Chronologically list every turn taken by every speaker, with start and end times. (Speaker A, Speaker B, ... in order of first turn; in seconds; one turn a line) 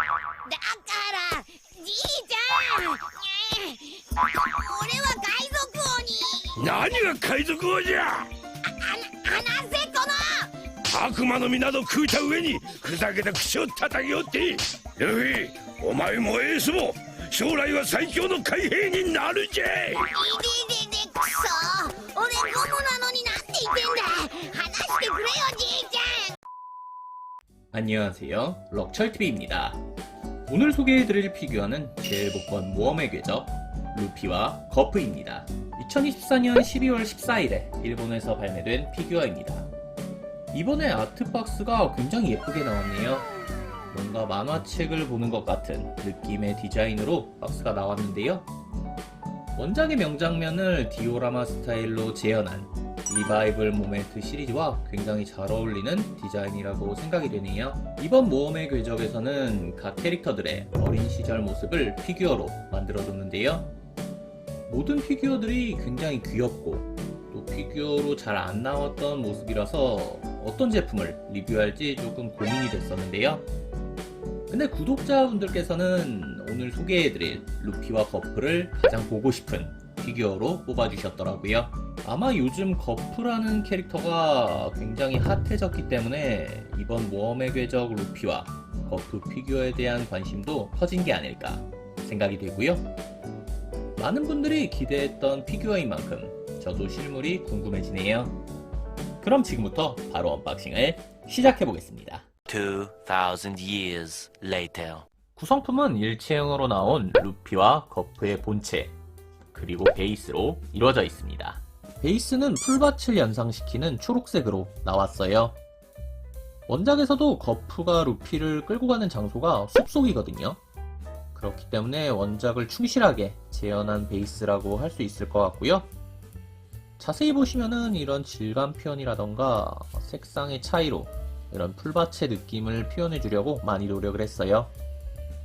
Speaker A: 0.4-6.6
Speaker B: 6.6-8.3
Speaker A: 8.7-10.5
Speaker B: 10.8-20.1
Speaker A: 20.1-26.3
Speaker C: 27.7-29.8
Speaker C: 30.5-39.7
Speaker C: 40.5-43.3
Speaker C: 43.9-48.5
Speaker C: 49.5-63.7
Speaker C: 64.7-73.5
Speaker C: 74.5-92.9
Speaker C: 94.0-98.4
Speaker C: 99.2-102.3
Speaker D: 102.5-105.1
Speaker C: 105.3-108.9
Speaker C: 109.5-115.6
Speaker C: 116.7-120.6
Speaker C: 121.3-125.9
Speaker C: 127.0-134.7